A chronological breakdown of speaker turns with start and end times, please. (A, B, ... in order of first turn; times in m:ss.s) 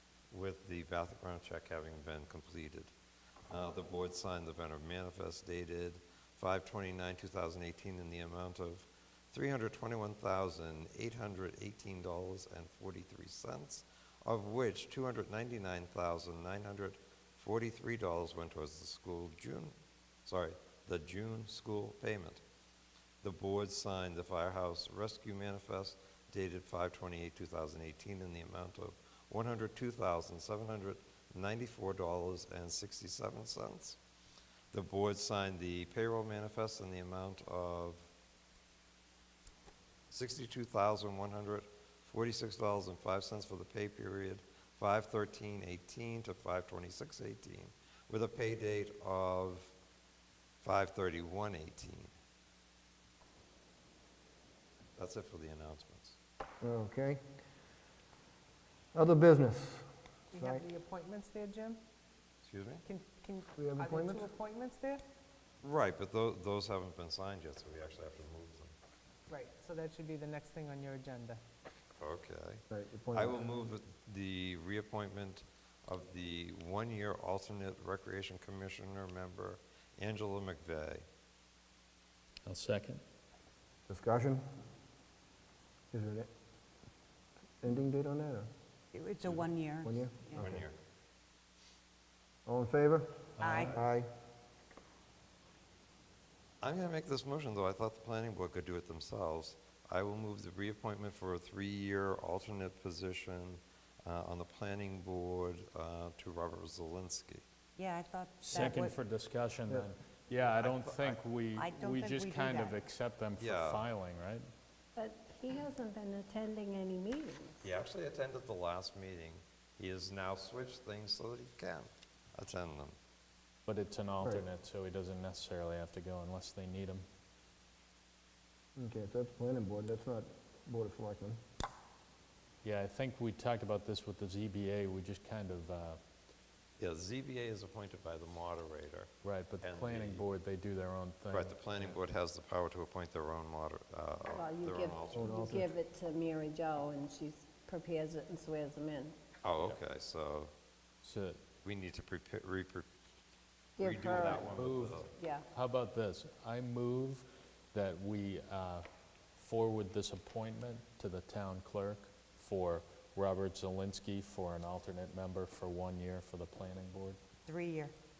0:00.3-0:02.9 A
0:03.5-0:19.8 A
0:20.3-0:22.4 A
0:23.2-0:34.0 A
0:34.7-0:38.1 A
0:40.1-0:49.7 A
0:50.6-0:52.1 A
0:55.0-0:56.2 A
0:56.6-0:57.2 B
0:58.9-1:00.6 B
1:00.3-1:01.8 C
1:02.4-1:02.8 A
1:02.8-1:05.0 C
1:03.6-1:04.3 B
1:05.6-1:08.7 A
1:09.3-1:11.4 C
1:12.0-1:21.0 A
1:12.7-1:13.5 B
1:22.4-1:23.0 D
1:23.9-1:24.4 B
1:25.9-1:26.3 B
1:27.6-1:28.5 B
1:28.9-1:30.4 E
1:29.8-1:30.6 B
1:30.4-1:30.8 A
1:32.5-1:33.2 B
1:33.4-1:33.8 E
1:33.4-1:33.8 D
1:33.7-1:34.1 B
1:36.6-1:47.4 A
1:47.8-1:49.0 E
1:48.4-1:54.5 D
1:50.6-1:51.2 A
1:51.6-1:52.8 E
1:53.4-1:53.9 A
1:55.0-1:57.6 F
1:57.6-2:03.0 A
2:03.7-2:07.0 D
2:08.8-2:11.4 B
2:12.6-2:16.0 D
2:16.8-2:20.3 A
2:19.2-2:22.0 D
2:21.3-2:25.6 A
2:24.3-2:29.2 F
2:25.1-2:25.7 B
2:29.4-2:30.5 A
2:31.0-2:31.4 D
2:31.6-2:32.9 A
2:33.8-2:35.5 F
2:33.8-2:35.1 A
2:34.5-2:47.2 D
2:47.5-2:48.0 E